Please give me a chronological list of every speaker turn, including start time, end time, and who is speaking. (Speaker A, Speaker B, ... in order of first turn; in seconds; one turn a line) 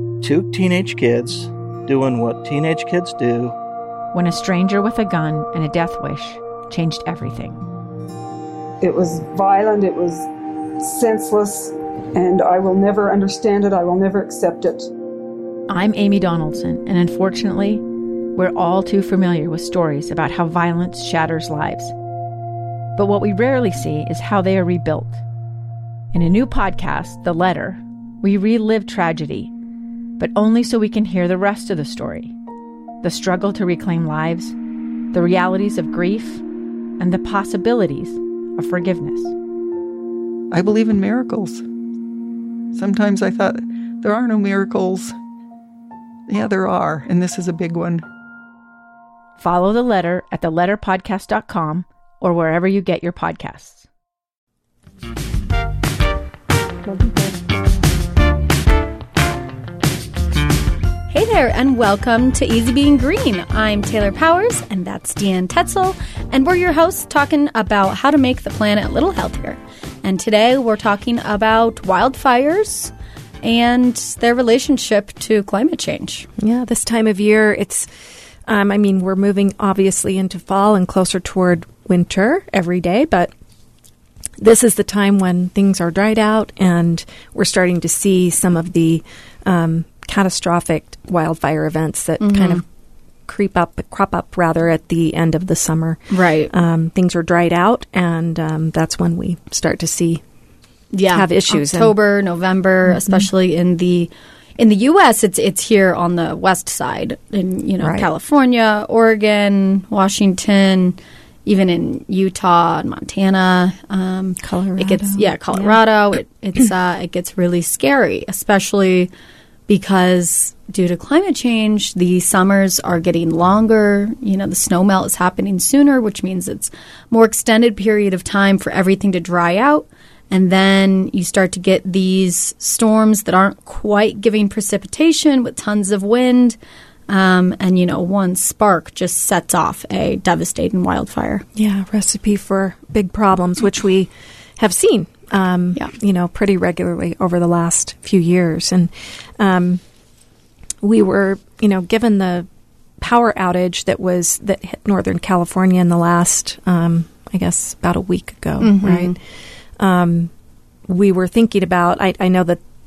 Speaker A: 0.2-3.6
Speaker B: 4.1-7.6
Speaker C: 8.8-10.3
Speaker C: 10.8-14.9
Speaker B: 15.7-17.8
Speaker B: 18.4-21.9
Speaker B: 23.0-25.2
Speaker B: 26.1-29.5
Speaker B: 30.2-32.4
Speaker B: 33.0-34.5
Speaker B: 35.1-36.4
Speaker B: 37.0-39.3
Speaker D: 40.5-41.6
Speaker D: 42.7-45.1
Speaker D: 46.3-48.0
Speaker B: 49.4-53.9
Speaker E: 61.1-76.3
Speaker F: 76.4-77.9
Speaker F: 78.5-83.3
Speaker F: 84.4-92.6
Speaker E: 92.2-92.6
Speaker F: 93.3-96.0
Speaker E: 96.1-96.5
Speaker F: 96.5-100.2
Speaker E: 100.9-119.1
Speaker F: 101.1-102.0
Speaker F: 102.9-103.2
Speaker F: 107.8-108.1
Speaker F: 114.4-115.8
Speaker E: 119.7-136.6
Speaker E: 137.1-141.4
Speaker F: 141.6-149.8
Speaker F: 150.8-152.5
Speaker F: 153.0-159.2
Speaker E: 158.6-159.2
Speaker F: 159.8-160.3
Speaker F: 160.9-162.6